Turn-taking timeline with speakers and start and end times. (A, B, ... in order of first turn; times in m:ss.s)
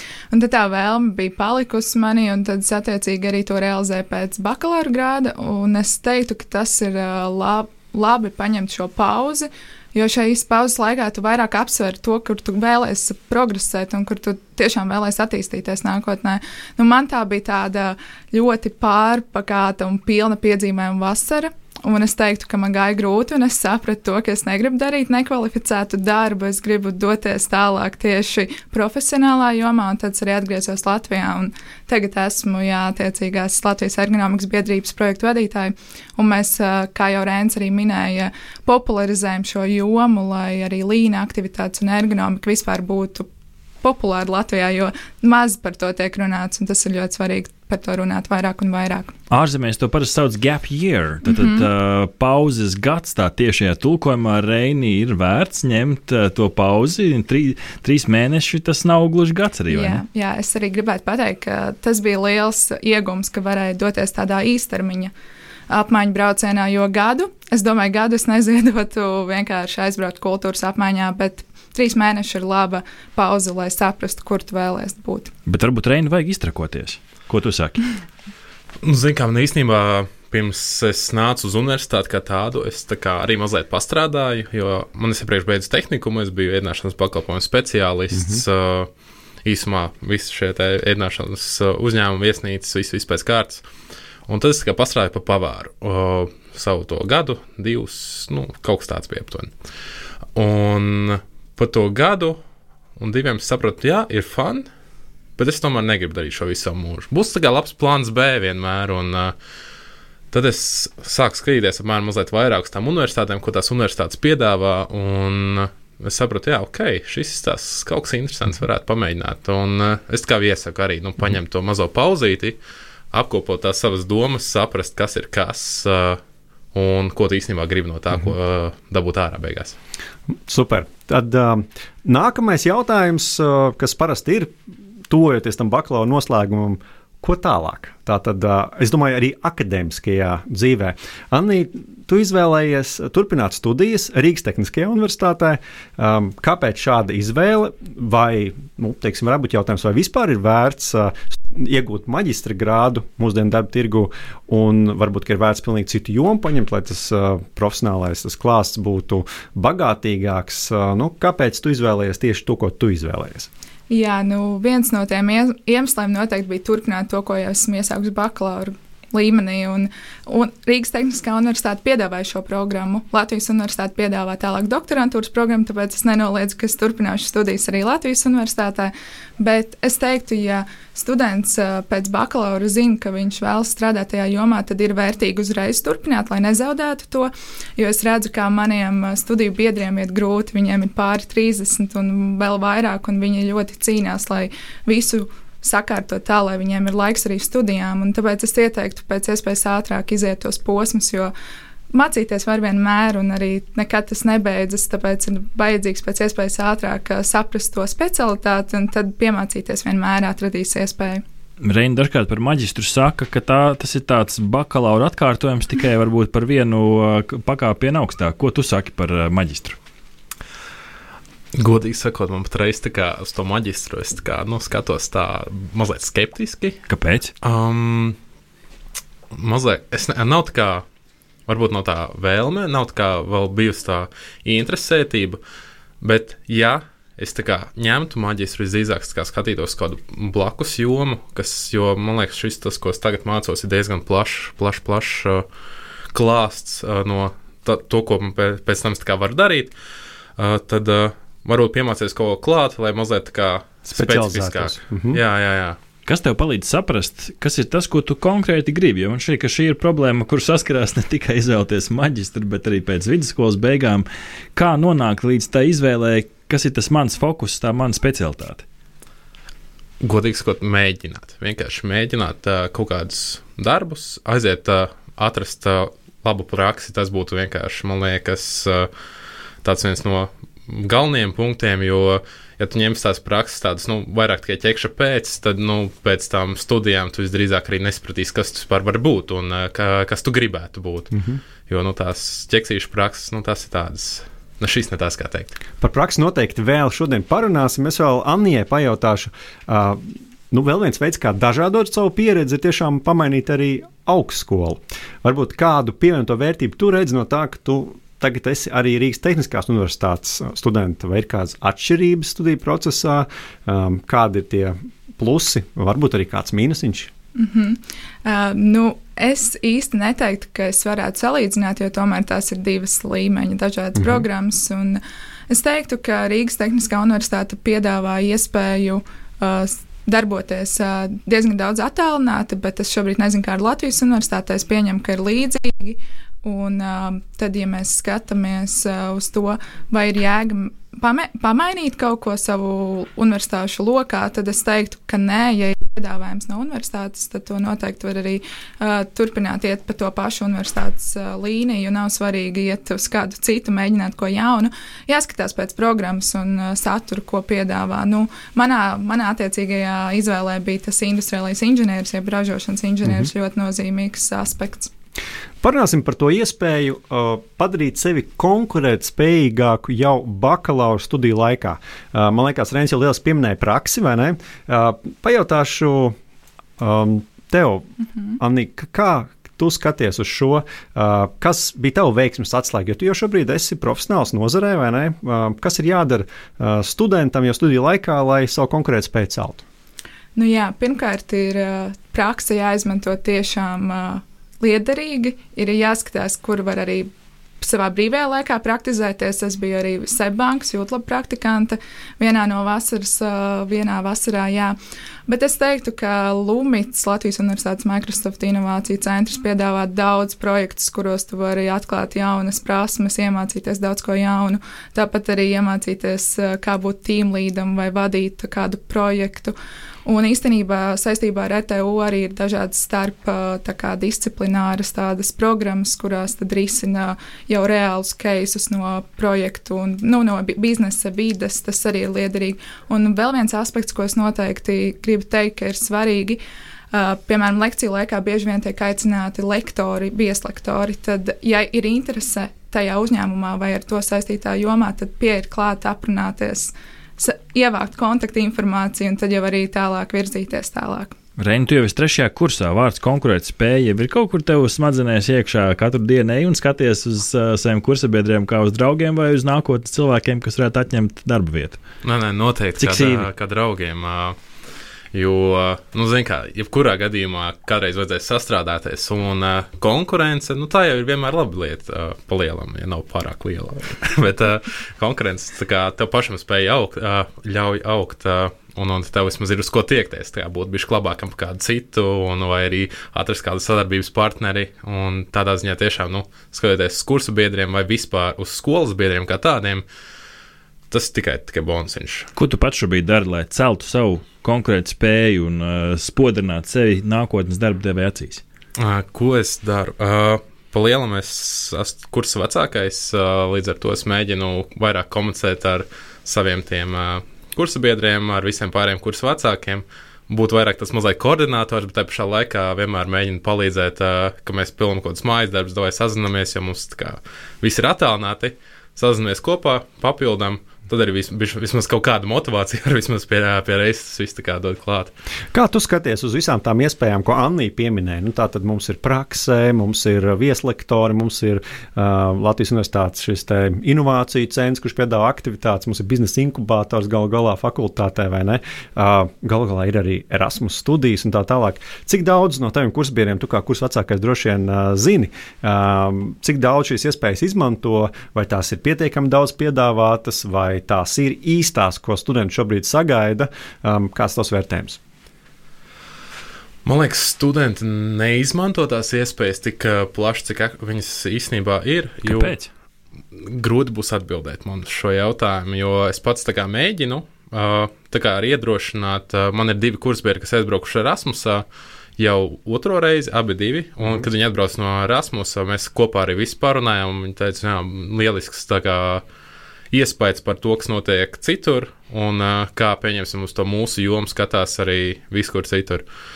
0:00.3-0:43.3 A
0:43.8-0:49.1 A
0:49.3-1:00.0 B
0:51.2-0:51.7 A
0:59.7-1:05.1 A
1:05.7-1:15.3 A
1:15.4-1:17.8 B
1:18.8-1:28.9 C
1:28.1-1:28.4 D
1:29.4-1:33.6 C
1:34.3-1:39.5 C
1:40.3-1:42.4 C
1:43.0-1:44.7 C
1:45.4-1:49.3 C
1:50.3-2:02.6 C
2:03.1-2:06.2 C
2:06.7-2:09.8 C
2:10.5-2:14.5 D
2:15.1-2:43.5 D
2:43.9-3:21.3 A
3:21.9-3:31.2 A
3:31.6-3:39.8 B
3:41.5-3:46.8 C
3:46.9-3:47.3 B
3:47.4-3:48.2 C
3:49.3-3:50.8 C
3:51.5-3:55.4 C
3:56.0-4:05.4 C
4:06.1-4:09.7 C
4:10.4-4:15.8 C
4:13.9-4:15.2 D
4:16.0-4:28.6 B
4:30.0-4:38.9 C
4:39.6-4:51.1 C
4:51.1-4:51.4 D
4:51.7-4:55.6 C
4:55.8-5:17.1 D
5:17.4-6:04.9 A
5:24.0-5:24.2 D
6:03.0-6:03.3 D
6:05.6-6:16.2 D
6:16.8-6:29.6 D
6:30.4-6:37.1 A
6:37.6-6:44.8 A
6:45.3-6:59.5 A
7:00.0-7:16.4 A
7:16.9-7:31.1 A
7:31.4-7:41.8 B
7:42.0-7:44.4 C
7:42.8-7:43.2 B
7:45.1-8:09.8 C
8:10.9-8:12.3 C
8:12.4-8:18.4 B
8:18.8-8:45.1 C
8:45.5-9:15.0 D
9:16.8-9:22.6 C
9:22.2-9:22.7 B
9:23.4-9:31.6 C
9:32.2-9:39.2 C
9:39.9-9:46.0 C